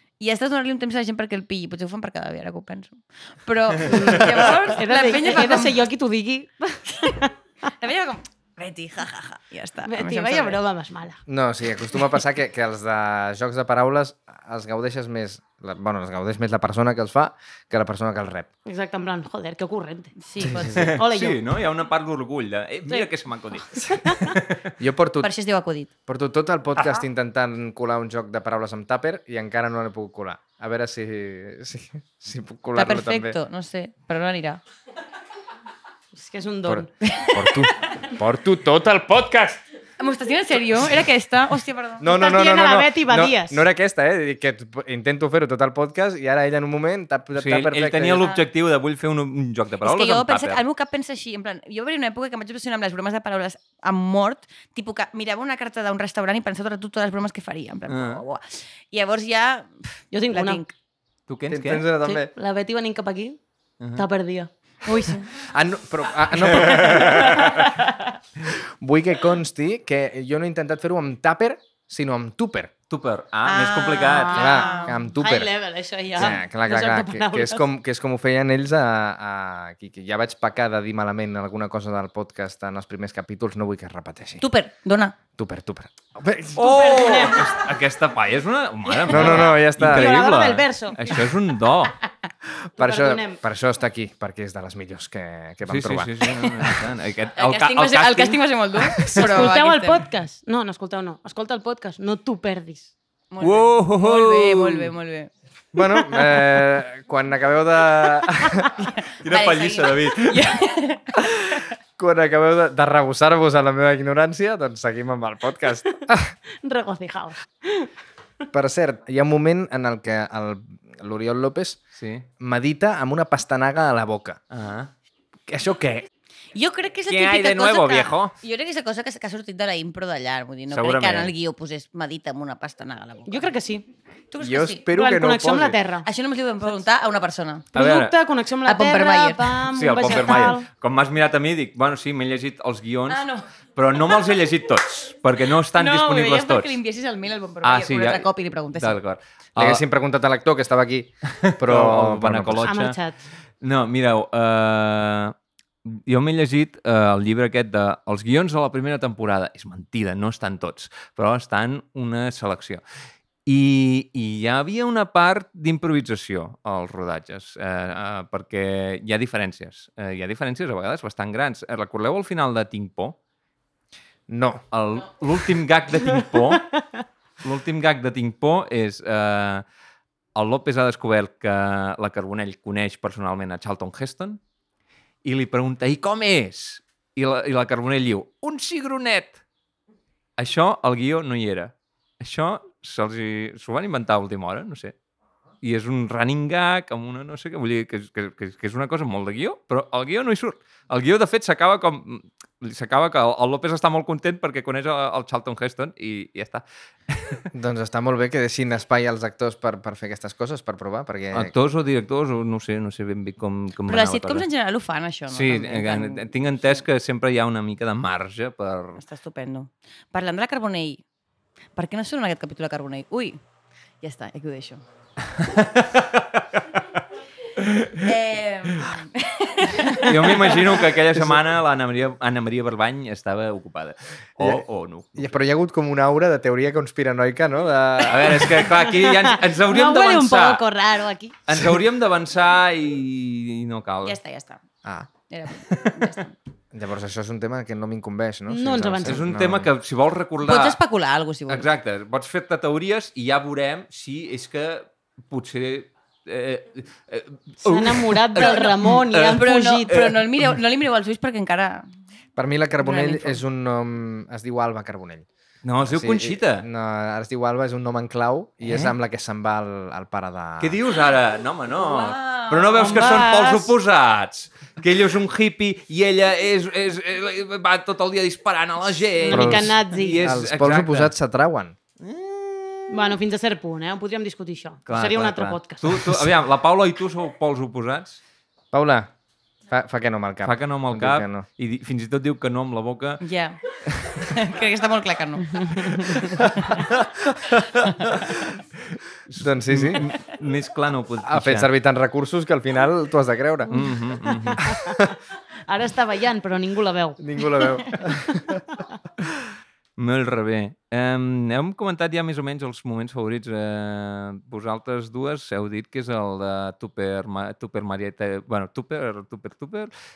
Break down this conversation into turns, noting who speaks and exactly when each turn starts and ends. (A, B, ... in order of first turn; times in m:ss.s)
0:00.2-0:05.8 A
0:03.8-0:07.3 B
0:07.0-0:10.6 A
0:09.9-0:11.2 B
0:11.3-0:18.5 C
0:18.7-0:21.4 B
0:20.2-0:20.9 A
0:20.4-0:20.9 C
0:20.7-0:24.7 D
0:23.8-0:24.4 B
0:24.8-0:25.3 C
0:25.2-0:25.9 A
0:26.1-0:33.4 C
0:32.8-0:34.6 A
0:36.1-0:36.9 B
0:36.7-0:39.6 C
0:37.0-0:37.7 A
0:40.0-0:42.0 A
0:42.0-0:48.3 C
0:42.0-0:43.6 B
0:47.4-0:50.6 D
0:49.8-1:00.7 A
0:57.9-0:58.2 D
1:00.1-1:00.6 B
1:01.3-1:01.9 D
1:01.5-1:02.3 C
1:02.0-1:03.4 B
1:03.8-1:04.0 D
1:04.0-1:05.2 B
1:04.9-1:05.2 A
1:05.3-1:07.6 C
1:06.6-1:07.6 D
1:06.8-1:08.1 B
1:08.5-1:12.7 C
1:12.9-1:14.4 D
1:13.4-1:15.0 A
1:14.3-1:17.6 B
1:14.3-1:15.5 C
1:16.2-1:24.4 C
1:24.4-1:25.2 A
1:25.4-1:27.0 C
1:26.6-1:31.9 D
1:26.6-1:27.6 B
1:29.1-1:31.3 B
1:29.1-1:30.2 C
1:32.8-1:36.1 C
1:32.8-1:33.4 B
1:35.7-1:39.2 D
1:37.4-1:40.0 A
1:39.1-1:42.9 B
1:43.3-1:45.3 A
1:43.4-1:44.9 D
1:45.7-1:48.8 C
1:49.0-1:51.2 A
1:49.2-1:50.4 D
1:52.0-1:56.3 C
1:56.6-1:57.9 B
1:58.5-2:01.8 C
2:02.0-2:02.3 D
2:02.4-2:04.4 C
2:04.5-2:04.9 D
2:05.5-2:06.1 C
2:06.6-2:13.5 A
2:07.1-2:08.3 D
2:10.7-2:11.3 D
2:13.3-2:13.9 B
2:14.3-2:14.9 A
2:14.4-2:15.8 C
2:14.9-2:16.1 B
2:16.0-2:17.7 A
2:17.7-2:18.1 D
2:17.7-2:20.7 B
2:18.7-2:20.6 A
2:19.7-2:23.2 D
2:23.1-2:23.5 A
2:23.8-2:26.8 D
2:25.8-2:29.0 A
2:27.6-2:29.8 D
2:29.6-2:32.7 C
2:31.3-2:33.0 D
2:32.6-2:33.2 B
2:33.6-2:35.3 D
2:35.8-2:42.8 D
2:43.5-2:53.2 D
2:54.3-2:54.6 C
2:54.7-2:56.7 D
2:57.4-2:59.6 D
3:00.4-3:04.4 D
3:05.2-3:09.4 D
3:10.4-3:15.0 D
3:15.6-3:27.5 D
3:27.5-3:31.5 C
3:31.3-3:34.5 D
3:33.9-3:36.8 A
3:35.3-3:39.0 D
3:39.0-3:41.0 A
3:41.8-3:43.4 A
3:44.0-3:44.8 A
3:45.3-3:47.0 D
3:47.6-3:48.1 D
3:48.0-3:50.8 A
3:50.0-3:55.4 D
3:54.4-3:54.6 C
3:55.2-3:58.6 C
3:58.0-4:00.6 D
3:58.7-4:01.4 B
4:01.5-4:04.2 D
4:04.0-4:04.6 A
4:04.8-4:05.1 C
4:05.3-4:06.3 A
4:05.7-4:06.0 D
4:06.7-4:09.7 C
4:08.5-4:09.2 B
4:09.0-4:10.8 D
4:10.4-4:11.7 A
4:11.5-4:20.5 D
4:17.6-4:20.1 B
4:18.4-4:21.9 A
4:22.4-4:25.3 C
4:22.8-4:23.4 A
4:25.6-4:26.7 D
4:25.8-4:30.8 C
4:28.6-4:28.9 D
4:30.6-4:41.1 D
4:31.7-4:33.2 A
4:32.8-4:33.7 B
4:39.2-4:40.2 B
4:39.3-4:41.8 C
4:42.0-4:43.2 D
4:42.9-4:46.0 B
4:44.9-4:48.2 D
4:48.7-4:49.1 C
4:49.7-4:51.5 C
4:50.4-4:53.2 D
4:53.2-4:56.4 A
4:56.6-4:58.4 C
4:59.3-5:01.7 D
4:59.4-5:00.1 C
5:01.2-5:03.9 C
5:03.7-5:04.6 D
5:04.5-5:05.1 B
5:04.7-5:05.1 C
5:05.7-5:07.6 B
5:07.2-5:08.6 C
5:10.0-5:19.9 D